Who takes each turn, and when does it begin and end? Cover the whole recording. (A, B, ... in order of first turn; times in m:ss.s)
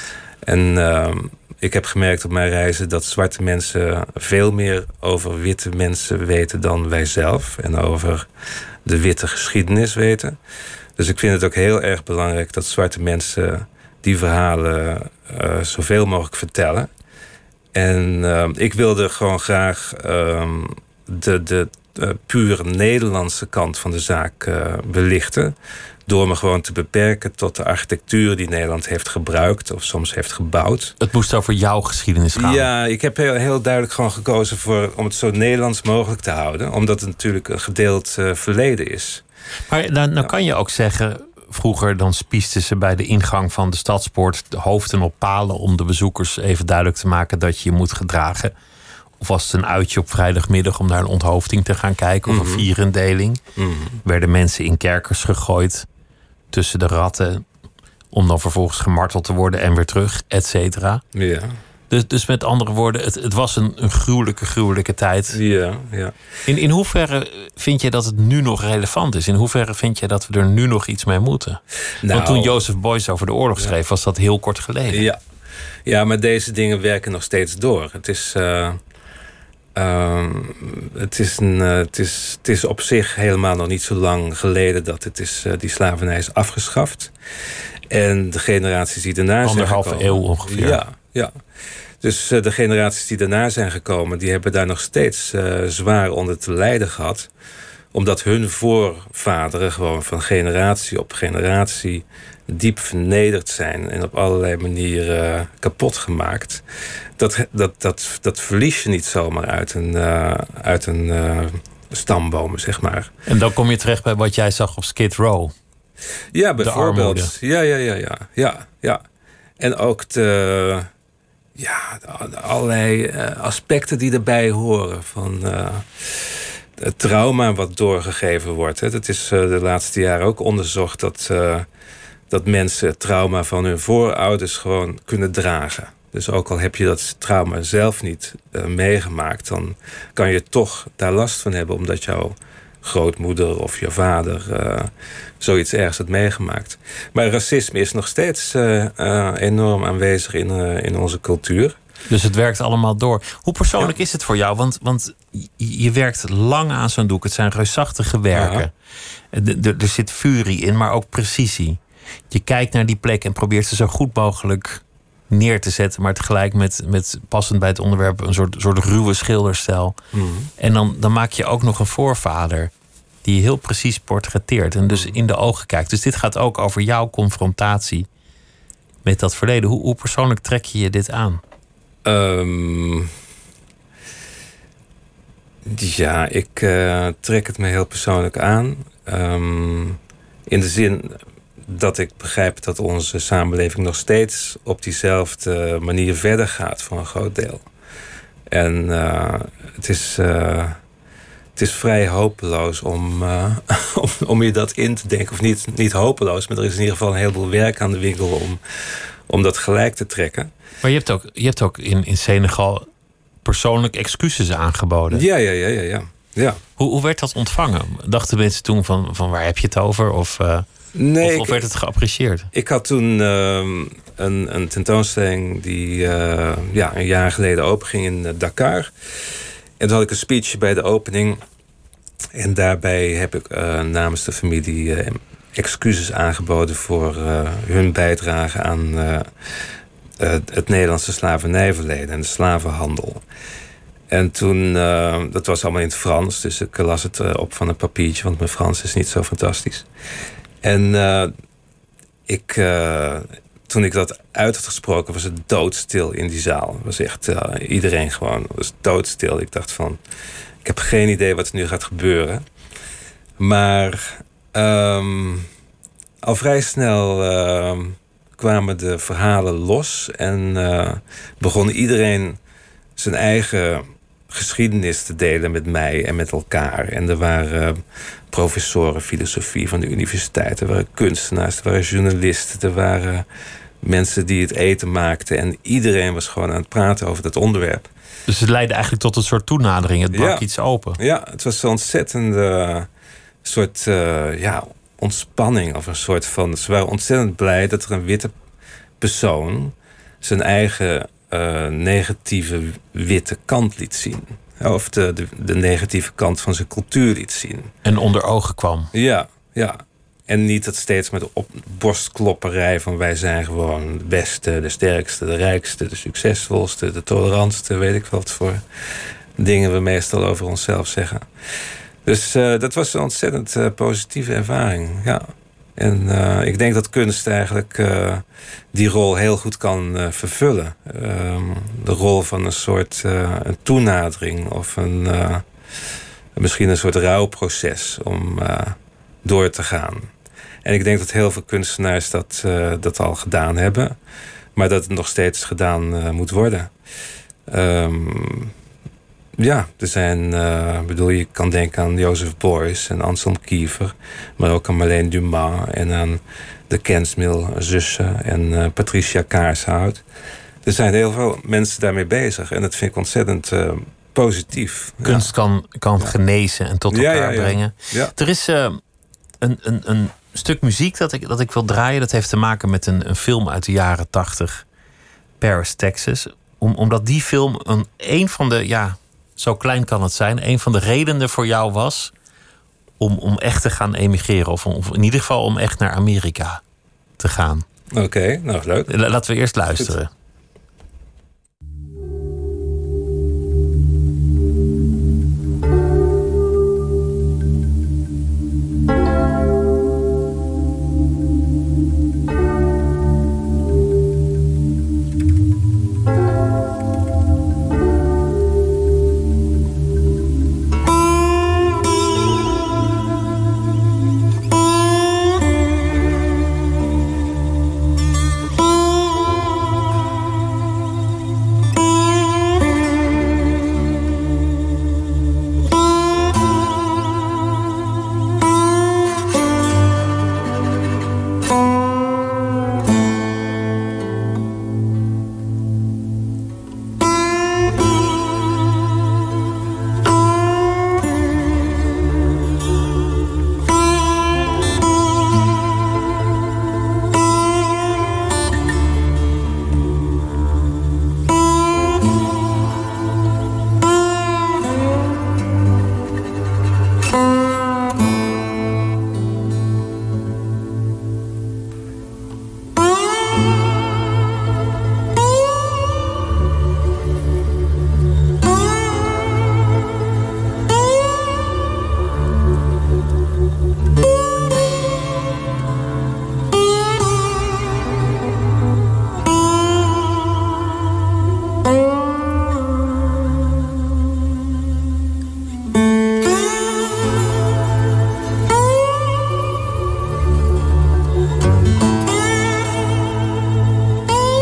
0:00.4-0:08.3 A
0:08.8-0:10.4 A
0:11.0-0:16.9 A
0:17.7-0:25.5 A
0:26.1-0:31.0 A
0:31.0-0:32.7 B
0:32.3-0:39.2 A
0:39.7-0:48.5 B
0:49.2-0:53.4 B
0:52.3-0:52.7 A
0:53.6-0:54.0 A
0:54.0-0:55.9 B
0:56.5-0:57.4 B
0:58.1-1:01.0 B
1:01.1-1:01.5 A
1:01.9-1:05.4 B
1:05.3-1:06.1 A
1:06.5-1:15.1 B
1:12.0-1:12.6 A
1:14.9-1:15.2 A
1:15.8-1:18.8 A
1:19.7-1:27.1 A
1:27.9-1:31.3 A
1:29.4-1:30.8 B
1:32.0-1:37.3 A
1:37.9-1:46.6 A
1:47.2-1:53.1 A
1:53.3-1:55.5 B
1:56.3-1:59.0 A
1:56.6-1:57.3 B
1:59.6-2:00.9 A
2:01.6-2:11.7 A
2:12.3-2:31.8 A
2:32.1-2:38.7 B
2:38.3-2:38.6 A
2:39.3-2:41.8 B
2:42.3-2:50.0 B
2:50.1-2:50.5 A
2:50.6-2:52.7 B
2:53.2-2:58.1 B
2:54.9-2:55.2 A
2:59.0-3:01.4 B
3:02.0-3:03.1 A
3:05.6-3:17.6 A
3:18.5-3:20.8 A
3:21.6-3:30.5 A
3:30.8-3:32.9 B
3:33.4-3:35.2 B
3:35.1-3:36.6 A
3:36.8-3:40.6 B
3:40.9-3:41.6 A
3:41.2-3:42.5 B
3:42.5-3:48.9 A
3:49.8-3:51.4 A
3:52.3-3:59.3 A
4:00.2-4:03.2 A
4:04.1-4:09.9 A
4:10.6-4:11.3 A
4:12.3-4:20.0 A
4:20.6-4:22.4 A
4:23.4-4:25.5 A
4:26.2-4:32.4 A
4:33.0-4:43.2 A
4:43.8-4:47.9 A
4:48.3-4:51.0 B
4:50.1-4:50.4 A
4:51.0-4:52.9 A
4:53.4-4:58.3 A
4:59.0-5:07.7 A
5:07.8-5:08.9 B
5:08.9-5:18.6 A
5:19.4-5:21.3 A
5:22.0-5:35.4 A
5:36.4-5:40.1 A
5:40.6-5:44.0 A
5:44.5-5:46.7 A
5:47.5-5:48.5 A
5:49.4-6:00.0 A
6:00.6-6:05.3 A
6:05.0-6:08.8 B
6:06.9-6:08.1 A
6:09.4-6:14.6 B
6:15.4-6:22.1 B
6:23.0-6:26.6 B
6:27.2-6:27.6 B
6:27.9-6:28.9 A
6:28.9-6:30.1 B